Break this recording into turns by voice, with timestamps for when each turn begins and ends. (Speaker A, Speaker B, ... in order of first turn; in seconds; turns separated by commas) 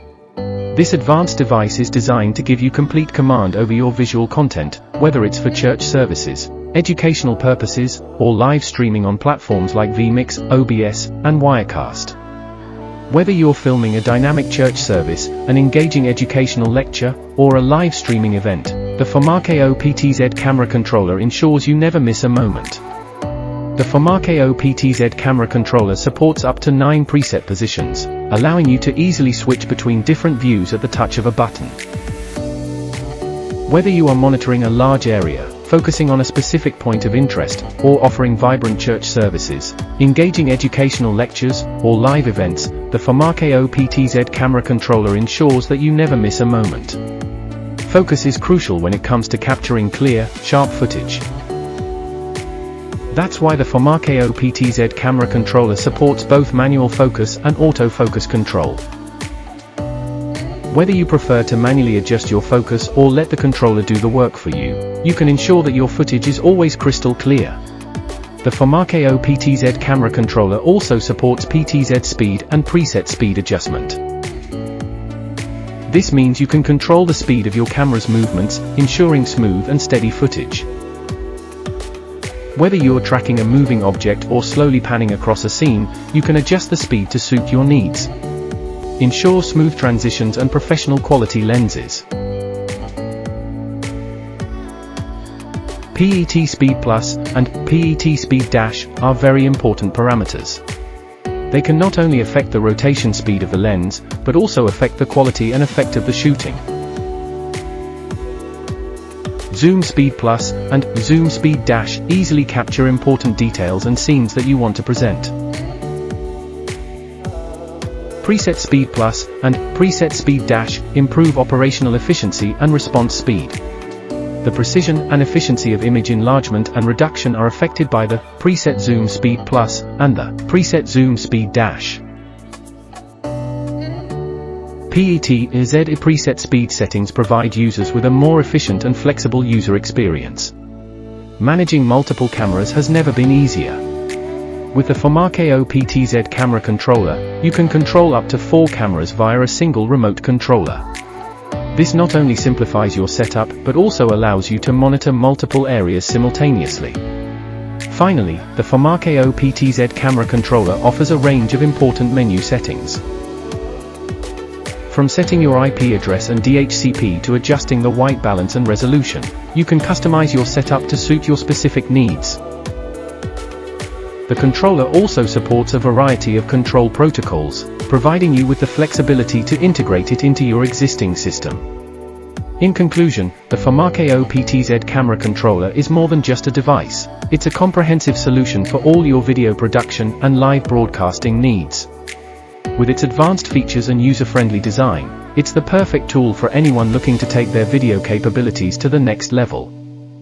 Speaker A: 0.7-12.2, Speaker A: 13.1-22.8, Speaker A: 23.8-31.8, Speaker A: 33.7-47.0, Speaker A: 47.8-51.2, Speaker A: 53.1-58.8, Speaker A: 60.7-67.6, Speaker A: 68.4-74.0, Speaker A: 75.9-80.7, Speaker A: 82.5-88.1, Speaker A: 89.0-92.1, Speaker A: 95.9-100.6, Speaker A: 101.5-106.6, Speaker A: 109.5-115.3, Speaker A: 118.2-123.6, Speaker A: 124.4-132.0, Speaker A: 134.9-140.5, Speaker A: 141.4-143.8, Speaker A: 144.7-150.8, Speaker A: 151.7-157.0, Speaker A: 157.9-163.0, Speaker A: 164.9-172.4, Speaker A: 174.3-181.7, Speaker A: 182.6-191.9, Speaker A: 192.8-199.7